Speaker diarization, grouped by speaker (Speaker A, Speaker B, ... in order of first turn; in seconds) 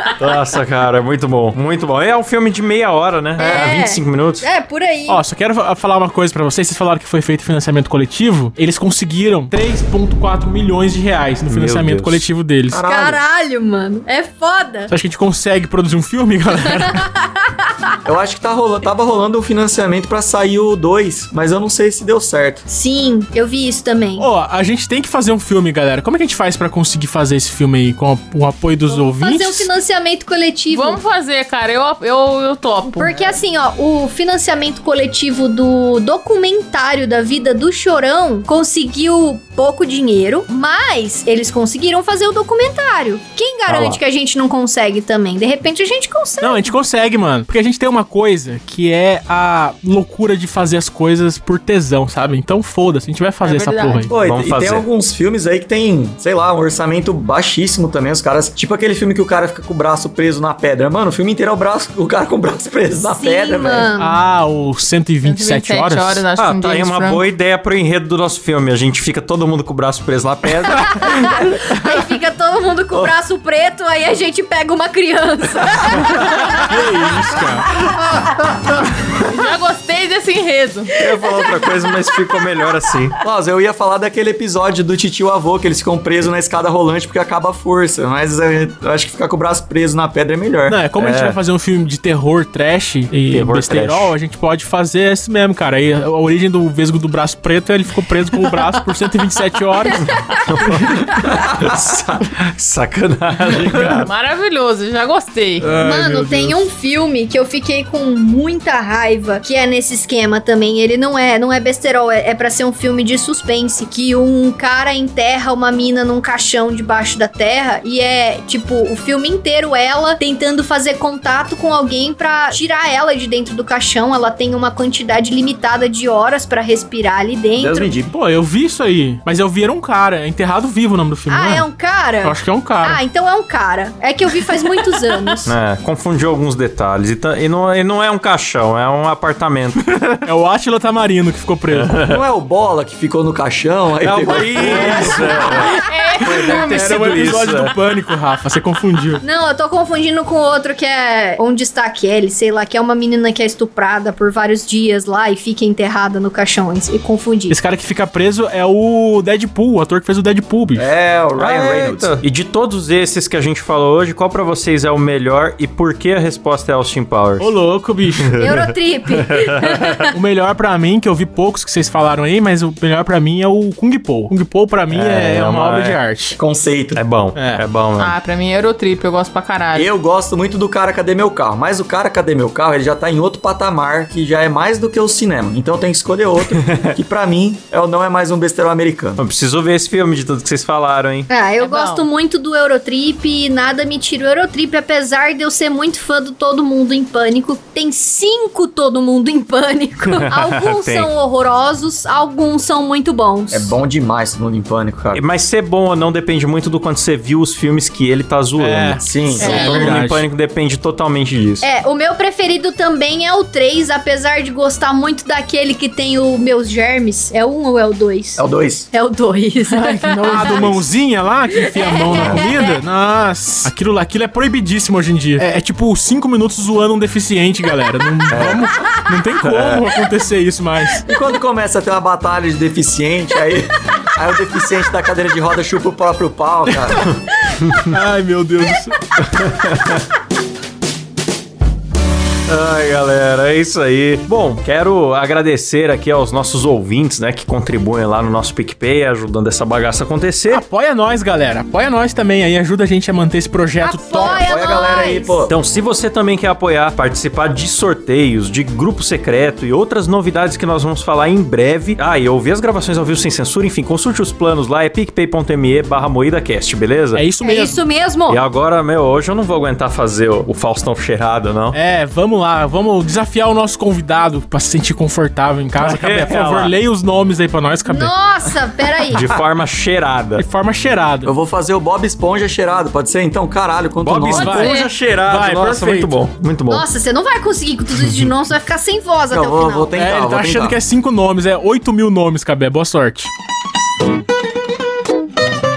Speaker A: 0.2-4.5, 11.5-12.2, 43.7-44.0, 54.2-54.9, 66.3-71.6, 81.0-83.2, 91.0-91.4, 93.3-94.1, 100.4-104.1, 135.5-140.2, 141.7-142.2, 144.0-147.7, 161.4-167.5, 168.2-170.0, 174.9-176.0, 176.9-178.2, 186.6-187.0, 189.2-191.3, 200.1-201.1, 205.1-211.7, 239.2-240.1, 242.5-250.6, 255.5-267.2, 268.3-271.8, 275.8-276.7, 279.1-280.4, 284.0-286.9, 288.0-288.3
Speaker B: 3.4-3.8, 12.7-13.2, 18.1-22.6, 54.1-63.9, 83.2-90.8, 101.2-102.2, 127.6-128.1, 142.1-145.5, 160.8-162.2, 176.4-177.0, 179.7-189.2, 203.5-205.2, 209.0-209.9, 218.4-218.9, 220.5-220.7, 228.3-228.7, 229.4-229.8, 231.1-237.1, 254.2-255.5, 281.2-284.7, 289.3-290.8
Speaker C: 3.4-5.2, 12.8-14.9, 16.7-18.0, 22.7-24.3, 28.9-31.0, 32.9-46.7, 63.0-64.2, 71.0-76.7, 81.0-81.5, 105.7-127.9, 131.3-135.5, 149.2-157.6, 168.4-170.2, 191.3-203.7, 209.4-209.8, 211.6-220.8, 221.5-222.8, 253.8-255.4, 267.4-268.4, 277.9-279.2, 286.7-289.9
Speaker D: 5.1-12.8, 14.9-17.0, 24.2-29.7, 46.4-54.1, 64.0-66.2, 76.6-77.7, 90.7-100.0, 105.7-106.6, 128.1-131.7, 132.2-133.0, 140.2-141.9, 146.2-149.2, 157.5-160.9, 167.4-168.4, 170.1-176.4, 177.4-177.6, 208.6-210.2, 219.7-231.1, 237.9-239.0, 250.5-254.5, 267.1-267.8, 271.7-278.1, 280.4-281.3, 284.4-286.1, 289.9-293.3
Speaker E: 30.7-33.3, 53.4-54.1, 65.2-67.2, 79.3-80.9, 104.0-105.7, 145.8-146.8, 178.0-179.9, 191.6-192.1